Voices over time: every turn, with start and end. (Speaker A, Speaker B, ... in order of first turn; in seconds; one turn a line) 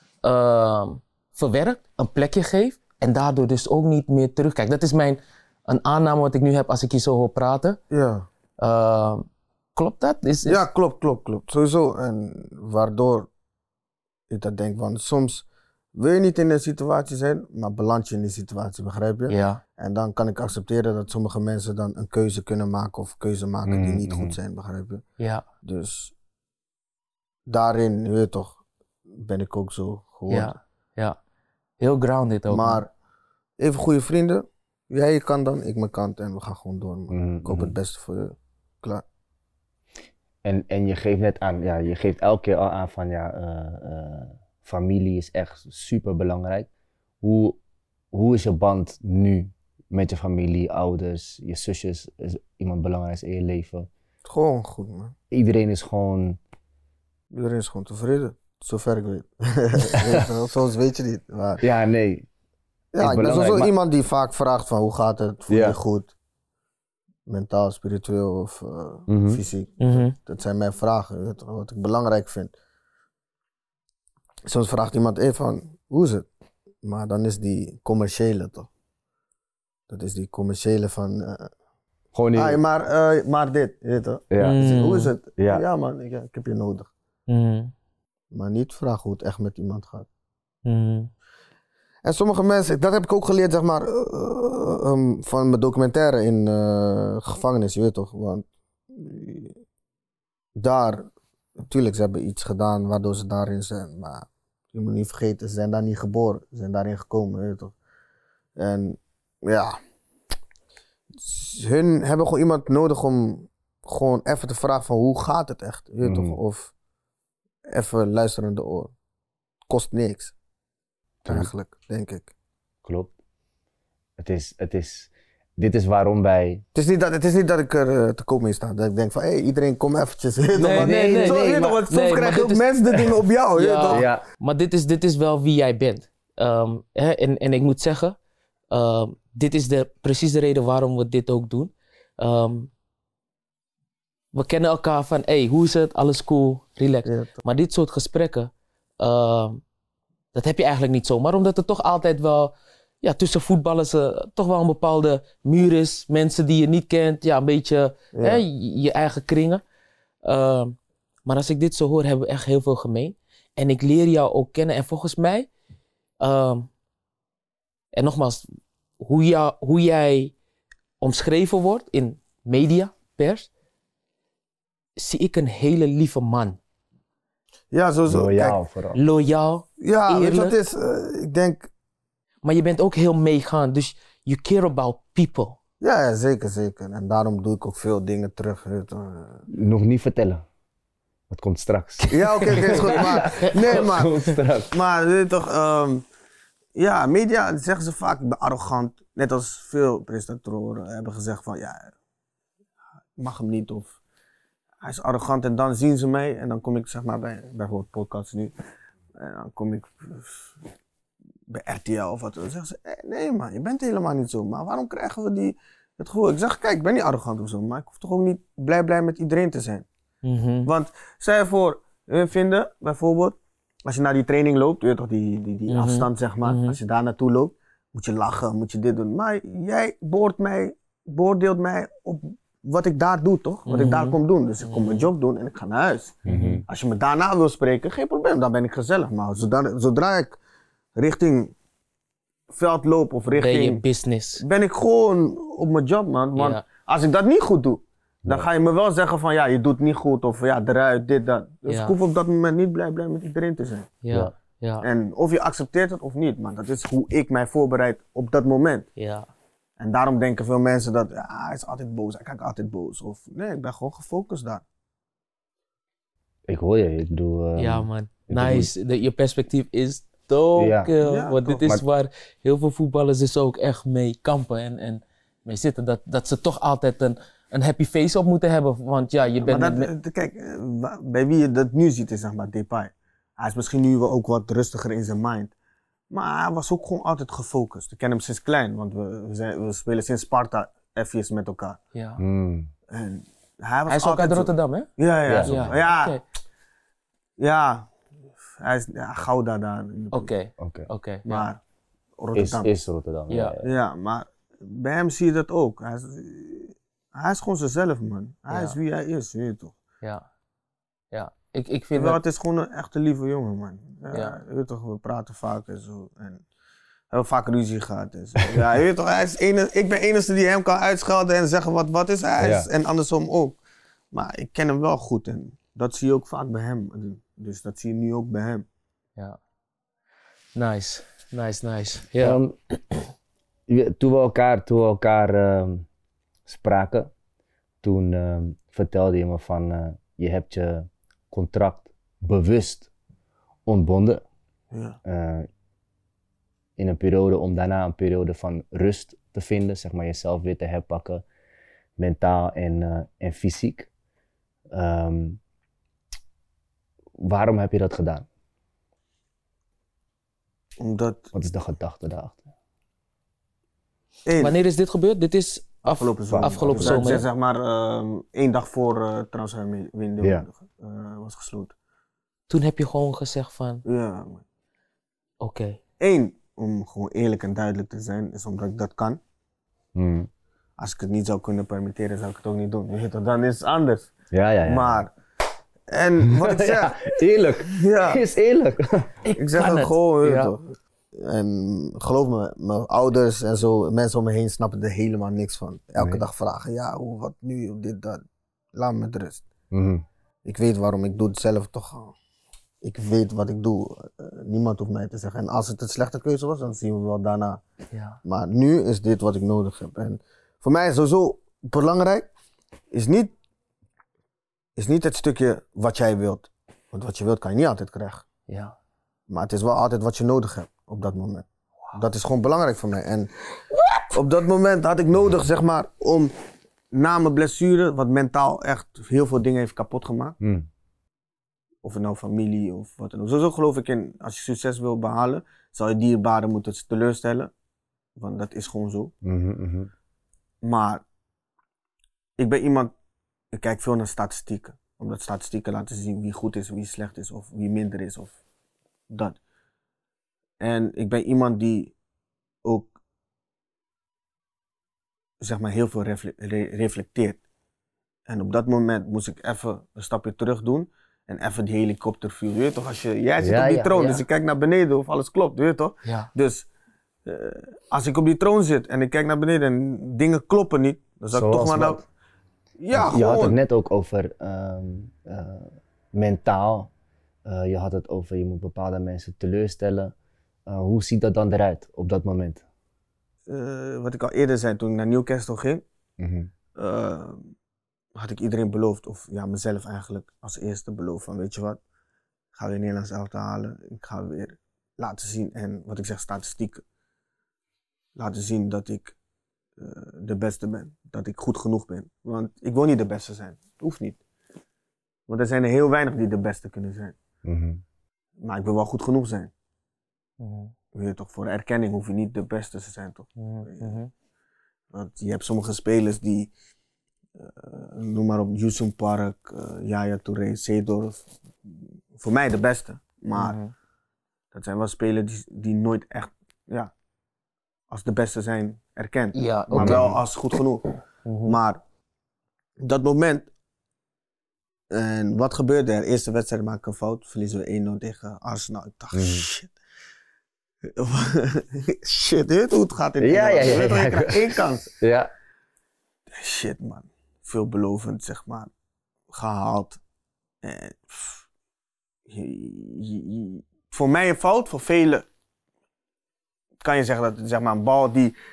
Speaker A: 0.2-7.8
Speaker B: 7.9-8.3
Speaker A: 8.6-10.6
Speaker B: 10.5-13.3
Speaker B: 14.3-25.0
Speaker A: 19.3-19.6
Speaker C: 23.7-24.4
Speaker A: 25.2-25.4
Speaker B: 25.6-26.1
Speaker B: 27.5-28.6
Speaker B: 29.2-30.6
Speaker A: 30.3-31.2
Speaker A: 31.8-32.8
Speaker B: 32.5-32.9
Speaker B: 33.6-39.0
Speaker C: 37.1-37.8
Speaker C: 40.4-46.7
Speaker C: 47.2-47.6
Speaker C: 48.1-53.9
Speaker B: 54.2-55.1
Speaker C: 55.3-56.4
Speaker B: 57.3-61.6
Speaker C: 61.6-62.3
Speaker B: 62.9-66.1
Speaker C: 63.0-63.7
Speaker C: 65.5-65.8
Speaker B: 67.3-72.5
Speaker C: 69.1-69.4
Speaker A: 69.8-70.2
Speaker B: 74.5-76.3
Speaker B: 76.8-78.7
Speaker B: 79.9-81.5
Speaker C: 82.1-82.6
Speaker B: 82.3-86.9
Speaker C: 84.3-84.6
Speaker A: 84.4-85.1
Speaker C: 85.4-85.6
Speaker A: 87.3-87.7
Speaker B: 88.3-90.1
Speaker A: 90.7-91.1
Speaker B: 92.0-99.6
Speaker B: 100.6-101.1
Speaker B: 101.7-107.7
Speaker B: 108.6-109.8
Speaker B: 111.2-116.7
Speaker C: 116.0-116.4
Speaker B: 117.7-118.9
Speaker B: 119.7-120.3
Speaker C: 121.2-121.5
Speaker B: 121.3-122.3
Speaker C: 122.8-123.1
Speaker C: 124.2-126.6
Speaker B: 126.7-134.1
Speaker A: 130.6-138.2
Speaker C: 130.7-131.6
Speaker C: 133.9-134.2
Speaker A: 138.7-142.7
Speaker A: 144.3-149.6
Speaker B: 147.1-147.3
Speaker A: 150.3-159.6
Speaker B: 158.1-158.4
Speaker A: 160.2-165.5
Speaker A: 166.2-166.7
Speaker A: 167.9-168.5
Speaker A: 169.0-170.3
Speaker A: 171.0-173.5
Speaker A: 175.0-176.6
Speaker B: 177.7-178.6
Speaker C: 178.1-179.0
Speaker A: 178.9-180.6
Speaker B: 179.8-181.7
Speaker A: 182.4-185.6
Speaker B: 185.8-189.4
Speaker C: 189.5-190.4
Speaker C: 191.3-194.7
Speaker B: 192.1-196.0
Speaker A: 192.6-193.8
Speaker B: 196.8-201.9
Speaker B: 203.2-203.9
Speaker B: 204.8-208.5
Speaker B: 209.2-210.5
Speaker B: 211.5-219.9
Speaker A: 220.2-220.7
Speaker B: 220.7-240.4
Speaker A: 225.7-226.8
Speaker A: 233.7-235.1
Speaker C: 236.3-236.6
Speaker A: 236.3-236.6
Speaker B: 241.0-241.5
Speaker B: 242.5-243.8
Speaker A: 243.3-244.4
Speaker B: 244.4-253.9
Speaker A: 246.4-246.7
Speaker A: 251.7-251.9
Speaker A: 254.0-254.9
Speaker B: 254.8-258.9
Speaker A: 259.0-259.3
Speaker B: 259.8-264.6
Speaker C: 266.5-268.7
Speaker A: 267.6-279.9
Speaker C: 270.6-270.9
Speaker B: 271.0-271.7
Speaker B: 279.4-285.5
Speaker B: 286.1-291.8
Speaker A: 291.9-292.2
Speaker C: 292.2-292.7
Speaker B: 292.9-296.2
Speaker A: 293.9-294.9
Speaker C: 295.3-295.8
Speaker A: 295.4-296.2
Speaker B: 297.4-297.9
Speaker B: 298.6-300.3
Speaker A: 300.1-301.5
Speaker C: 300.6-300.9
Speaker B: 301.3-301.6
Speaker B: 302.2-302.7
Speaker C: 302.4-303.7
Speaker A: 303.3-303.6
Speaker B: 303.6-309.8
Speaker A: 308.5-308.8
Speaker A: 311.1-312.2
Speaker B: 311.9-316.4
Speaker A: 314.1-314.4
Speaker B: 317.1-323.6
Speaker C: 322.4-322.7
Speaker B: 324.1-328.6
Speaker A: 330.6-332.4
Speaker C: 332.2-332.6
Speaker C: 333.7-335.9
Speaker C: 336.5-337.1
Speaker C: 337.8-342.9
Speaker C: 343.7-344.2
Speaker B: 344.7-345.0
Speaker C: 345.1-345.5
Speaker C: 346.8-351.2
Speaker C: 352.0-353.9
Speaker C: 354.7-355.4
Speaker C: 357.2-358.3
Speaker B: 360.8-361.3
Speaker C: 361.3-362.5
Speaker B: 364.3-364.6
Speaker A: 364.4-367.3
Speaker B: 365.9-371.7
Speaker C: 366.3-367.2
Speaker C: 370.2-370.5
Speaker A: 372.5-373.9
Speaker B: 373.9-374.4
Speaker A: 375.4-375.8
Speaker B: 376.0-379.2
Speaker C: 379.9-380.3
Speaker B: 380.8-384.1
Speaker C: 384.3-385.1
Speaker B: 384.7-385.1
Speaker B: 385.9-387.1
Speaker C: 386.2-389.1
Speaker B: 387.7-388.2
Speaker A: 389.2-390.5
Speaker B: 389.4-398.2
Speaker B: 398.8-399.5
Speaker C: 399.7-400.1
Speaker B: 400.4-402.1
Speaker B: 402.8-407.6
Speaker A: 407.9-408.2
Speaker B: 408.2-412.3
Speaker B: 412.9-413.3
Speaker B: 414.8-418.3
Speaker A: 418.5-418.8
Speaker B: 419.3-423.3
Speaker B: 424.1-426.3
Speaker B: 426.9-430.4
Speaker C: 430.4-430.7
Speaker B: 431.8-437.5
Speaker B: 438.2-439.1
Speaker C: 439.2-439.9
Speaker B: 440.6-441.0
Speaker B: 442.4-442.9
Speaker B: 443.5-448.4
Speaker B: 449.1-449.4
Speaker B: 450.6-451.9
Speaker B: 452.6-452.9
Speaker B: 455.4-457.4
Speaker B: 458.3-466.7
Speaker C: 463.4-464.2
Speaker A: 466.1-466.3
Speaker B: 467.3-472.1
Speaker C: 471.3-472.0
Speaker B: 472.8-473.6
Speaker C: 472.9-476.9
Speaker C: 477.5-480.1
Speaker C: 480.7-482.6
Speaker B: 483.5-485.8
Speaker C: 486.2-486.5
Speaker B: 486.8-487.5
Speaker B: 488.1-491.8
Speaker B: 492.6-496.8
Speaker B: 498.2-499.1
Speaker B: 499.8-504.2
Speaker B: 505.3-507.2
Speaker C: 507.4-507.8
Speaker B: 508.4-509.5
Speaker A: 510.4-510.7
Speaker B: 510.9-514.0
Speaker A: 513.4-514.1
Speaker B: 514.9-516.5
Speaker B: 517.4-523.6
Speaker A: 523.4-523.7
Speaker B: 524.5-526.9
Speaker B: 527.9-530.9
Speaker A: 529.3-530.2
Speaker C: 529.8-530.2
Speaker A: 531.3-531.6
Speaker B: 531.5-531.8
Speaker B: 532.8-533.5
Speaker B: 534.9-539.7
Speaker C: 539.1-539.5
Speaker B: 540.9-544.9
Speaker C: 543.2-545.3
Speaker B: 546.3-548.7
Speaker B: 549.3-550.0
Speaker B: 550.6-551.5
Speaker B: 552.3-555.2
Speaker B: 556.8-558.4